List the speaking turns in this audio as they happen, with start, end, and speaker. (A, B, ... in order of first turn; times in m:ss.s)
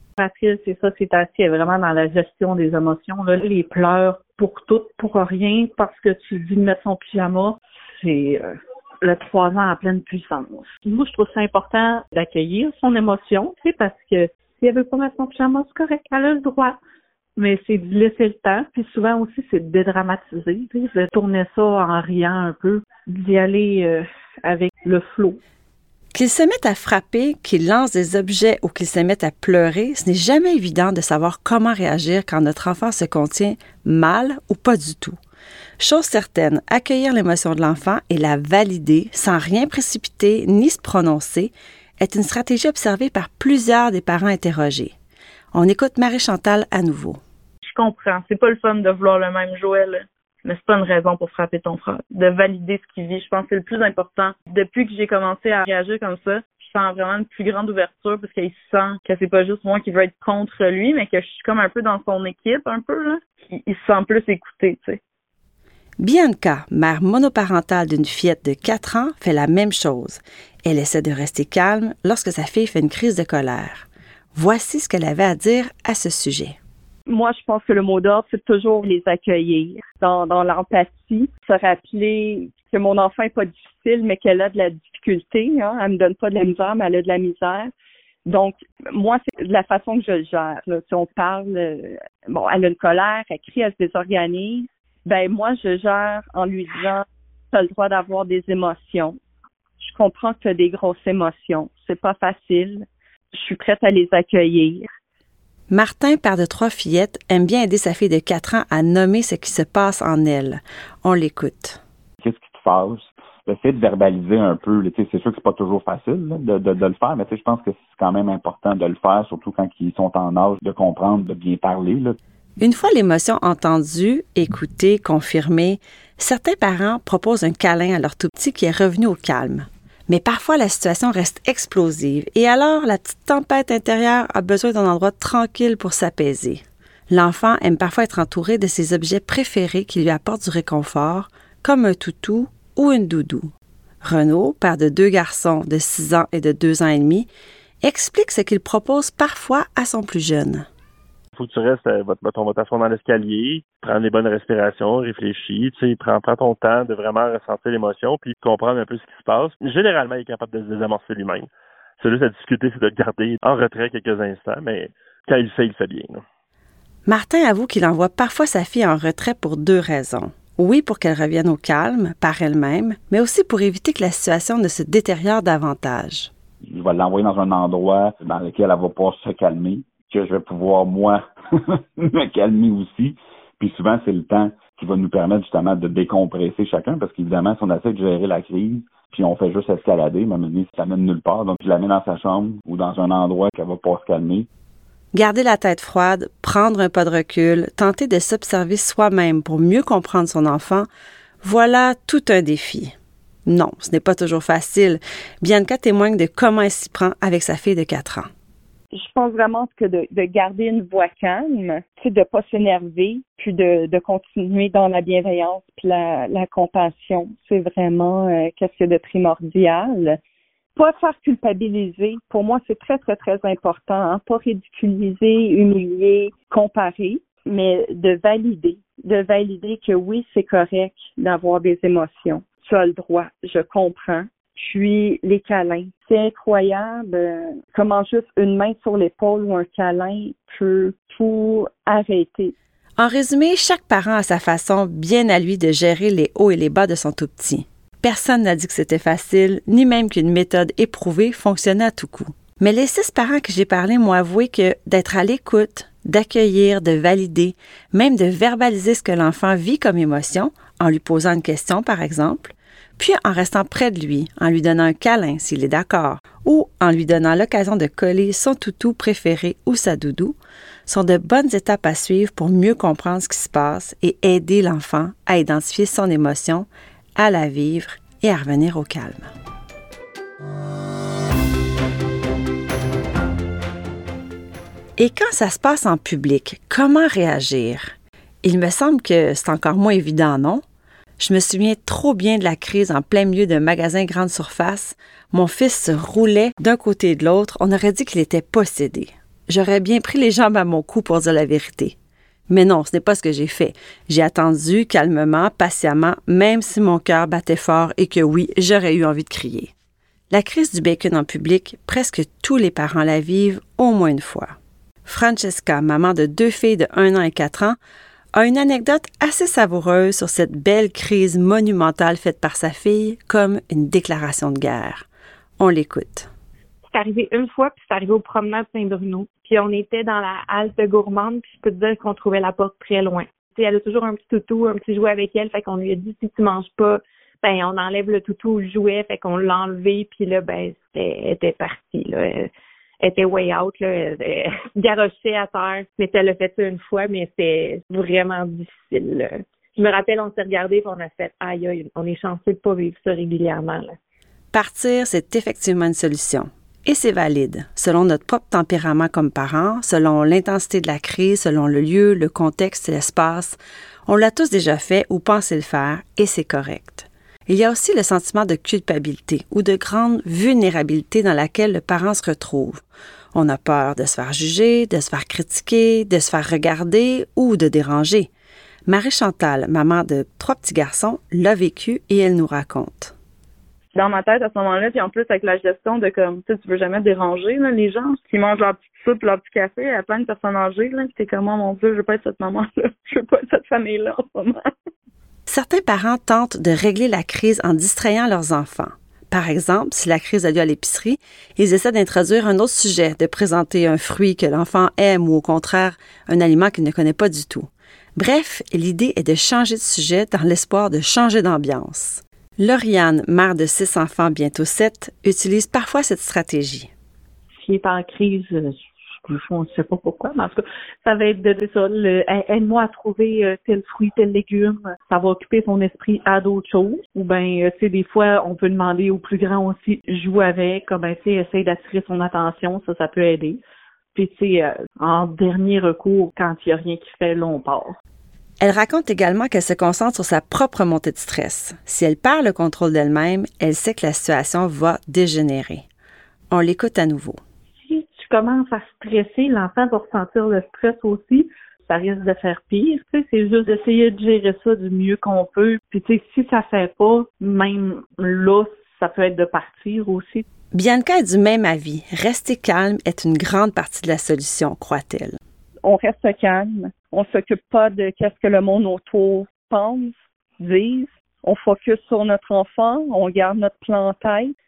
0:00.2-0:16.8 A
0:17.4-0:25.4 A
0:26.1-0:35.2 B
0:35.8-0:44.9 B
0:45.5-0:47.2 B
0:47.6-1:05.0 C
1:06.0-1:16.6 B
1:17.1-1:27.7 D
1:28.2-1:39.2 D
1:39.8-1:44.9 D
1:45.7-1:51.8 B
1:52.2-2:02.2 E
2:02.6-2:23.5 B
2:24.0-2:27.3 B
2:27.8-2:30.7 B
2:31.3-2:46.2 F
2:47.0-2:56.3 B
2:56.7-3:14.5 E
3:15.1-3:20.9 B
3:21.4-3:22.9 B
3:23.4-3:28.3 B
3:28.9-3:40.2 D
3:40.8-4:02.5 D
4:03.0-4:39.3 B
4:45.0-4:50.6 B
4:51.2-5:02.0 B
5:02.5-5:09.7 B
5:10.3-5:17.8 B
5:18.3-5:25.0 B
5:25.6-5:26.3 B
5:26.8-5:42.5 G
5:43.0-5:54.0 G
5:54.5-6:12.8 B
6:13.3-6:18.3 B
6:18.9-6:23.1 B
6:23.9-6:34.7 C
6:35.5-6:56.9 B
6:57.5-7:13.6 A
7:14.1-7:18.0 A
7:18.6-7:25.8 B
7:26.5-7:27.4 B
7:27.8-7:40.4 A
7:40.7-7:45.4 B
7:45.8-7:54.6 D